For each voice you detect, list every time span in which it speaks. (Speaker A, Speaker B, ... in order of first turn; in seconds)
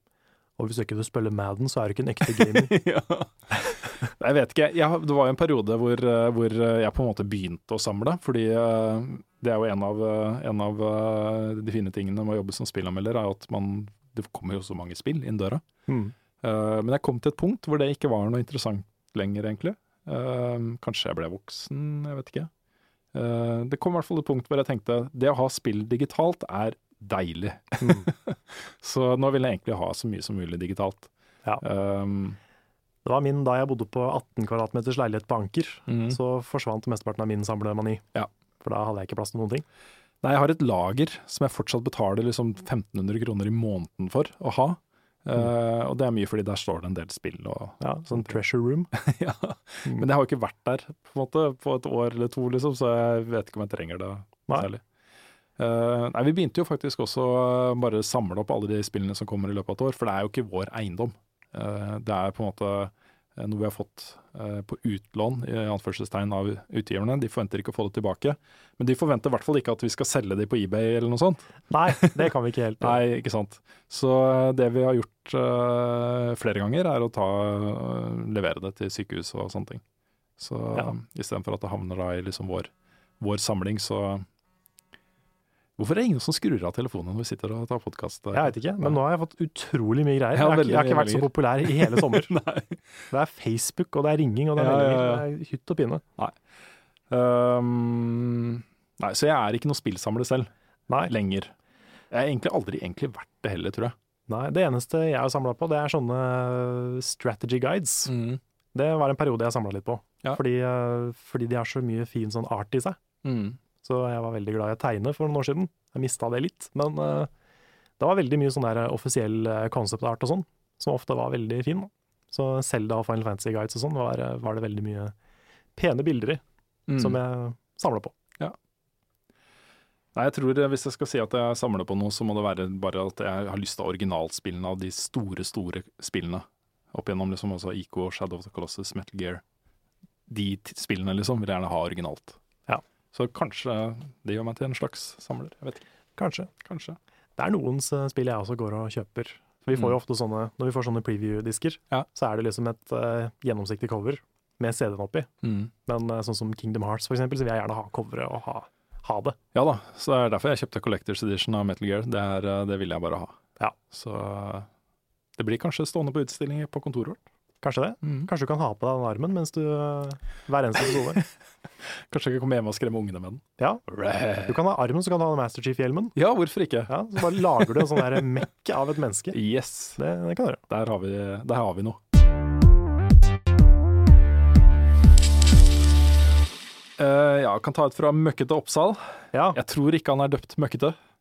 Speaker A: 0.6-2.7, 15.9-16.1, 27.8-28.1, 33.0-38.0, 38.6-39.6, 47.8-48.9, 71.7-73.0, 88.3-92.3, 93.1-96.0, 104.3-108.1, 108.7-113.0, 113.8-117.3, 118.0-125.1, 125.8-126.4, 127.0-128.1, 146.2-146.5, 147.4-155.3, 155.9-159.4, 167.6-171.2, 174.5-176.1, 176.9-179.4, 180.0-180.6, 189.3-189.6
Speaker B: 2.3-15.6, 16.4-22.5, 23.1-31.1, 31.6-32.4, 35.9-36.2, 40.2-48.4, 48.9-54.8, 55.6-72.3, 72.8-79.8, 80.4-84.2, 85.8-89.0, 90.4-93.0, 94.6-95.3, 97.1-100.5, 101.1-101.5, 102.1-104.0, 108.1-108.4, 113.2-113.6, 126.9-127.2, 130.2-139.4, 140.3-142.4, 143.1-145.8, 146.6-147.0, 155.4-155.7, 159.5-163.4, 163.9-164.7, 165.4-167.2, 168.0-168.3, 172.1-174.6, 176.2-178.0, 179.3-180.0, 180.7-182.0, 187.0-191.0